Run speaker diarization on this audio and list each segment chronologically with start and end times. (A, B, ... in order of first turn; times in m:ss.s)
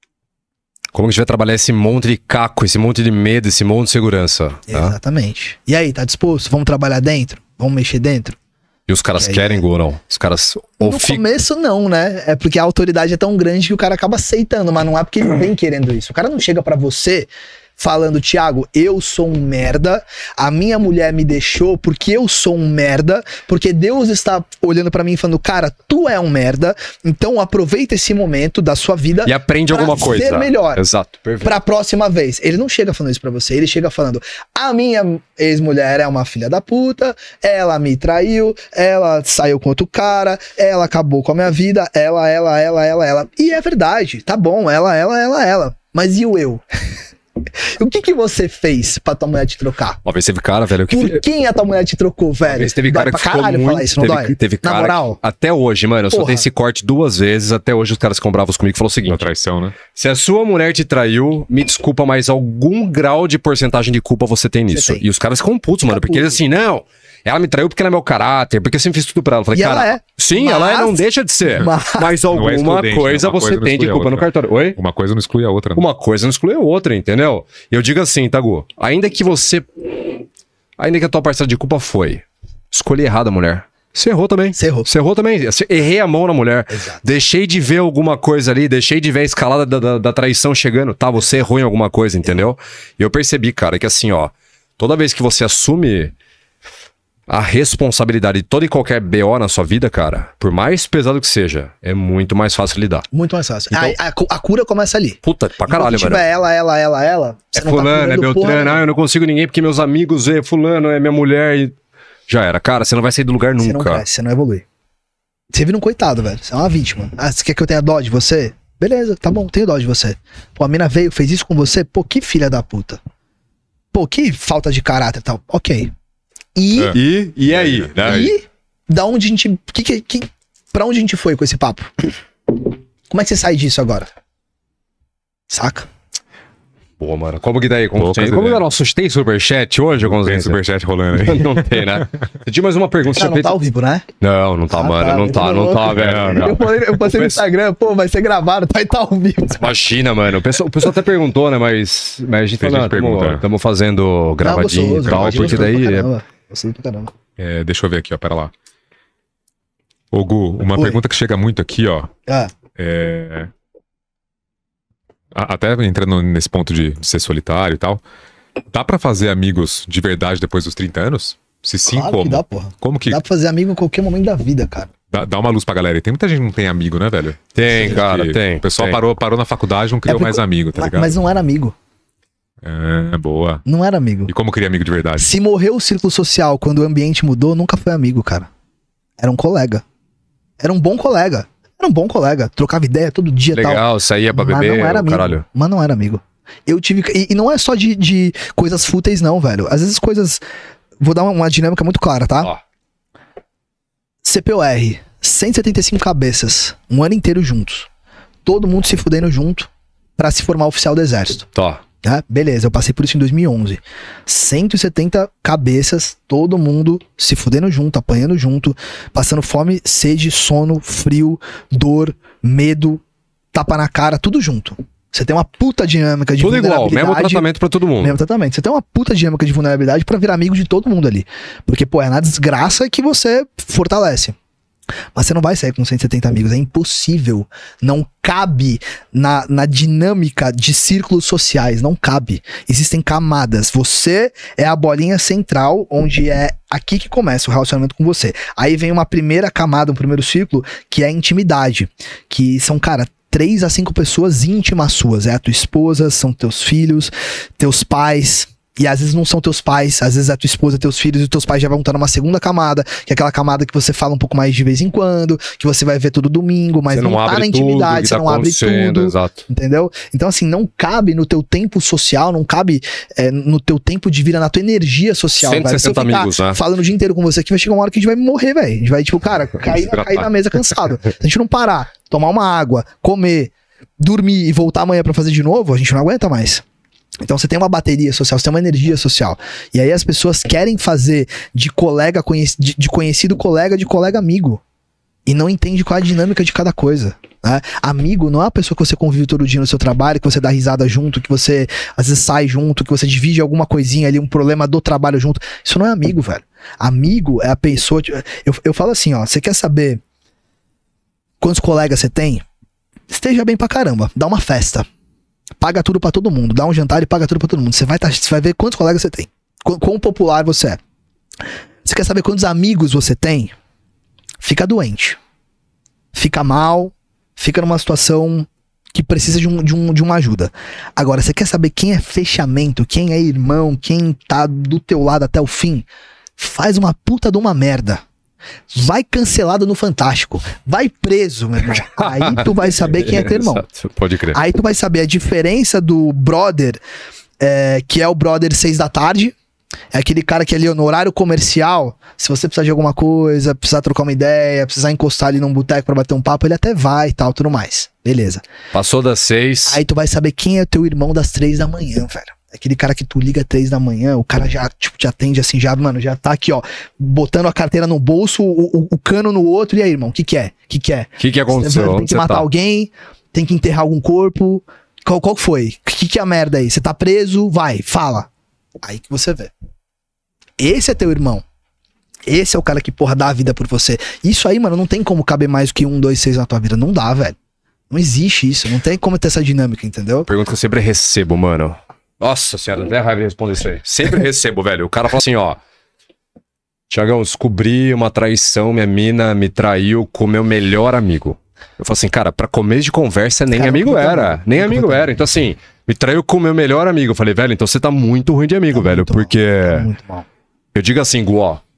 0:00.9-0:05.0 A
0:04.7-0:08.4 B
0:08.9-0:11.2 A
0:09.2-0:09.6 B
0:10.8-0:30.8 B
0:29.2-0:31.6 A
0:31.4-0:46.6 B
0:47.6-0:50.0 B
0:50.0-0:51.2 A
0:50.9-0:55.2 B
0:52.5-0:59.2 A
0:56.1-0:56.4 B
0:59.1-0:59.8 C
0:59.9-1:14.8 A
1:04.7-1:05.0 B
1:05.9-1:06.4 B
1:09.5-1:11.0 B
1:11.6-1:12.1 B
1:12.3-1:15.8 C
1:15.8-1:19.9 A
1:20.8-1:36.1 A
1:24.6-1:24.9 B
1:26.7-1:27.0 B
1:37.3-1:43.1 A
1:43.1-1:48.8 B
1:45.2-1:46.2 A
1:47.5-1:51.7 A
1:52.3-1:54.0 A
1:53.6-1:54.6 B
1:55.5-2:03.0 B
2:03.9-2:05.9 B
2:06.6-2:07.0 B
2:06.9-2:08.3 A
2:07.7-2:08.4 C
2:08.0-2:12.1 B
2:13.1-2:14.1 B
2:15.5-2:15.9 B
2:17.0-2:20.6 A
2:18.0-2:18.6 C
2:20.0-2:22.1 C
2:21.1-2:23.6 A
2:23.2-2:24.1 B
2:24.2-2:27.2 A
2:24.7-2:29.7 B
2:25.9-2:27.1 C
2:29.6-2:36.1 A
2:32.6-2:33.4 C
2:34.4-2:37.1 B
2:35.0-2:35.8 C
2:37.4-2:38.5 C
2:40.1-2:42.1 C
2:40.7-2:41.0 B
2:42.3-2:42.5 B
2:42.8-2:43.5 C
2:45.3-2:48.0 C
2:48.7-2:53.2 C
2:51.9-2:54.9 B
2:55.1-3:01.2 C
2:57.6-2:59.0 A
3:00.1-3:01.8 B
3:02.6-3:03.6 C
3:03.6-3:04.3 B
3:04.3-3:05.3 C
3:05.2-3:08.5 B
3:09.2-3:09.8 B
3:10.6-3:13.8 B
3:13.5-3:15.4 A
3:14.3-3:20.4 B
3:21.0-3:22.5 B
3:24.2-3:27.9 B
3:28.4-3:31.5 B
3:31.5-3:31.8 A
3:32.0-3:43.0 B
3:43.5-3:47.5 B
3:46.4-3:48.2 A
3:48.0-3:54.4 B
3:55.2-4:46.6 B
4:26.9-4:29.5 A
4:35.4-4:36.6 A
4:47.2-4:54.6 B
4:55.3-5:10.0 B
5:11.4-5:12.4 B
5:13.1-5:14.9 B
5:15.6-5:20.8 B
5:21.8-5:23.5 B
5:24.4-5:25.2 B
5:26.1-5:35.9 B
5:36.4-5:38.0 B
5:38.7-5:43.6 B
5:41.8-5:44.4 A
5:44.3-5:46.8 B
5:47.4-5:49.4 B
5:49.9-5:58.4 B
5:58.7-5:59.8 A
5:59.7-6:18.3 B
6:11.2-6:12.5 A
6:18.8-6:19.5 B
6:20.6-6:21.4 B
6:22.3-6:27.4 B
6:27.9-6:30.3 B
6:30.3-6:35.6 A
6:36.9-6:49.9 A
6:43.5-6:45.1 B
6:48.7-6:50.3 B
6:50.7-6:51.6 A